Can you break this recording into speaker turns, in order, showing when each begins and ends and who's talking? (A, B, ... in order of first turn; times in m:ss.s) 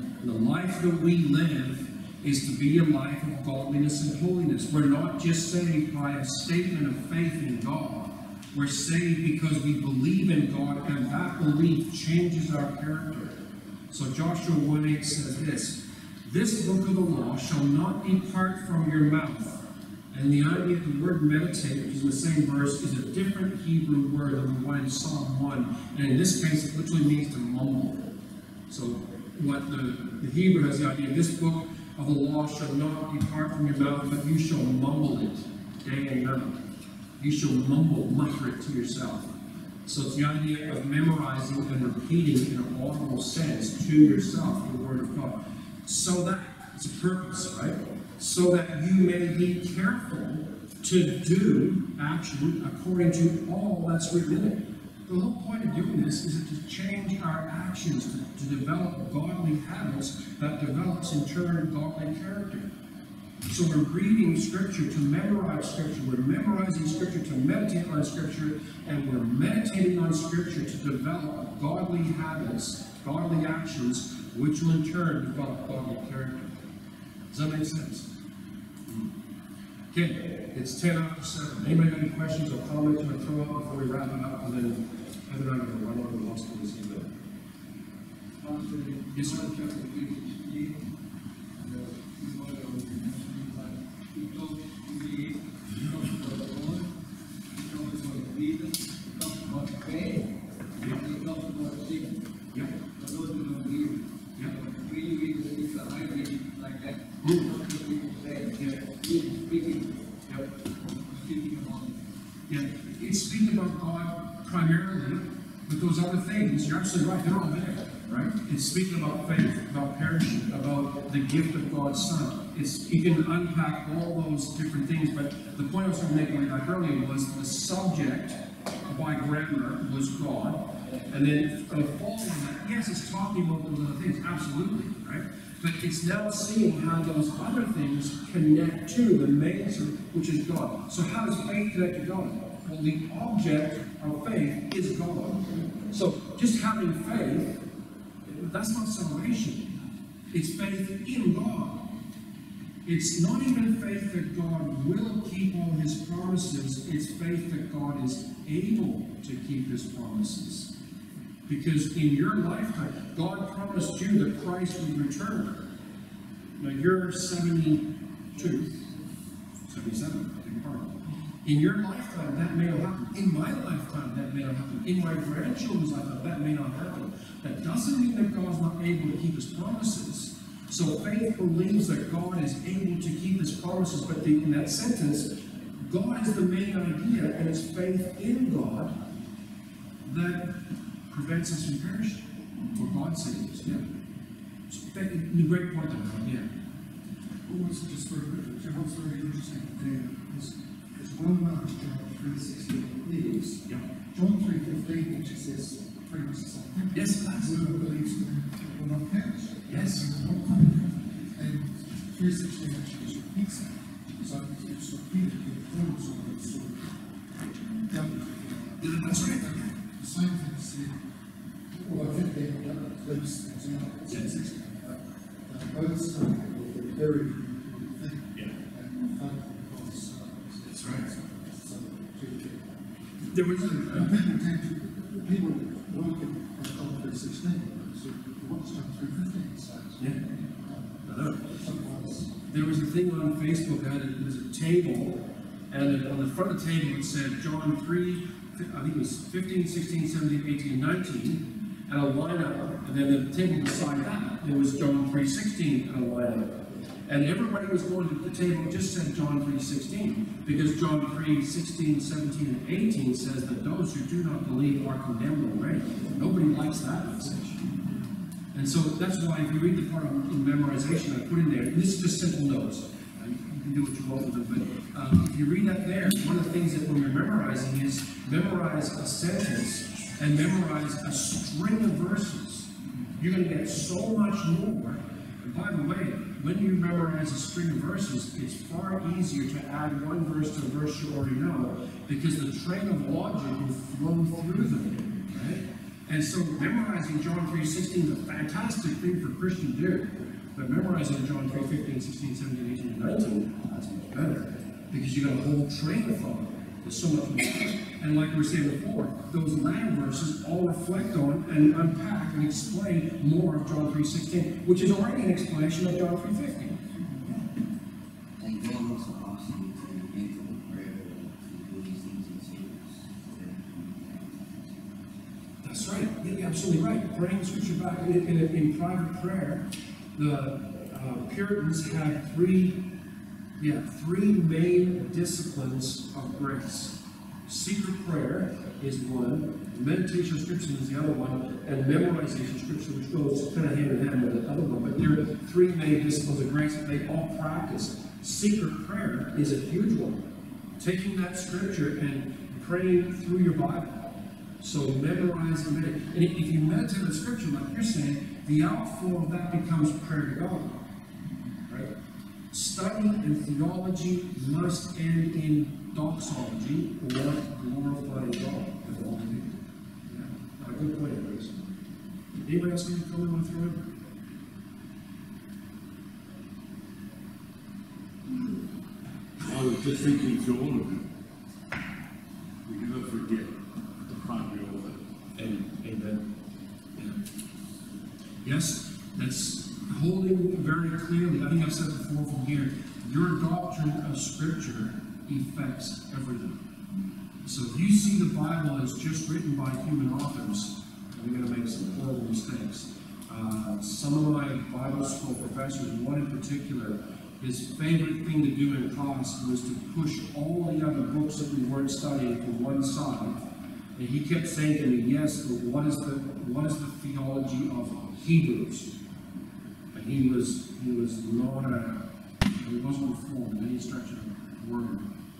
0:00.2-0:13.4 A
0:13.9-0:19.6 A
0:20.1-0:28.0 A
0:28.7-0:36.6 A
0:37.2-0:39.3 A
0:39.8-1:02.7 A
1:03.5-1:16.5 A
1:17.3-1:18.1 A
1:19.9-1:27.1 A
1:28.4-1:30.9 B
1:29.1-1:29.4 A
1:31.6-1:36.9 B
1:37.6-1:40.3 B
1:40.8-1:42.2 B
1:43.0-1:49.9 B
1:50.8-1:52.0 B
1:52.5-2:27.6 A
2:28.2-2:29.7 A
2:30.3-2:31.9 A
2:32.8-2:40.7 A
2:41.5-2:45.6 A
2:46.6-2:48.6 A
2:48.7-2:49.0 B
2:49.7-3:09.0 A
3:10.0-3:12.2 A
3:12.7-3:13.8 A
3:14.7-3:16.5 A
3:17.4-3:36.9 C
3:26.9-3:27.6 A
3:29.7-3:30.1 A
3:37.8-3:41.0 C
3:38.8-3:39.5 A
3:41.7-3:52.6 C
3:50.7-3:51.1 A
3:53.3-3:54.1 A
3:53.6-4:02.3 C
4:01.0-4:01.5 A
4:02.5-4:27.7 A
4:28.5-5:17.4 A
5:18.4-5:24.7 D
5:25.6-5:32.8 A
5:33.6-5:50.2 A
5:50.8-6:00.8 A
6:02.5-6:09.5 A
6:10.1-6:11.6 A
6:12.4-6:13.9 A
6:19.4-6:21.0 E
6:22.6-6:25.0 E
6:25.4-6:26.2 A
6:28.4-6:36.6 A
6:37.4-6:53.4 A
6:53.9-6:58.9 A
6:59.9-7:02.0 A
7:02.6-7:05.0 A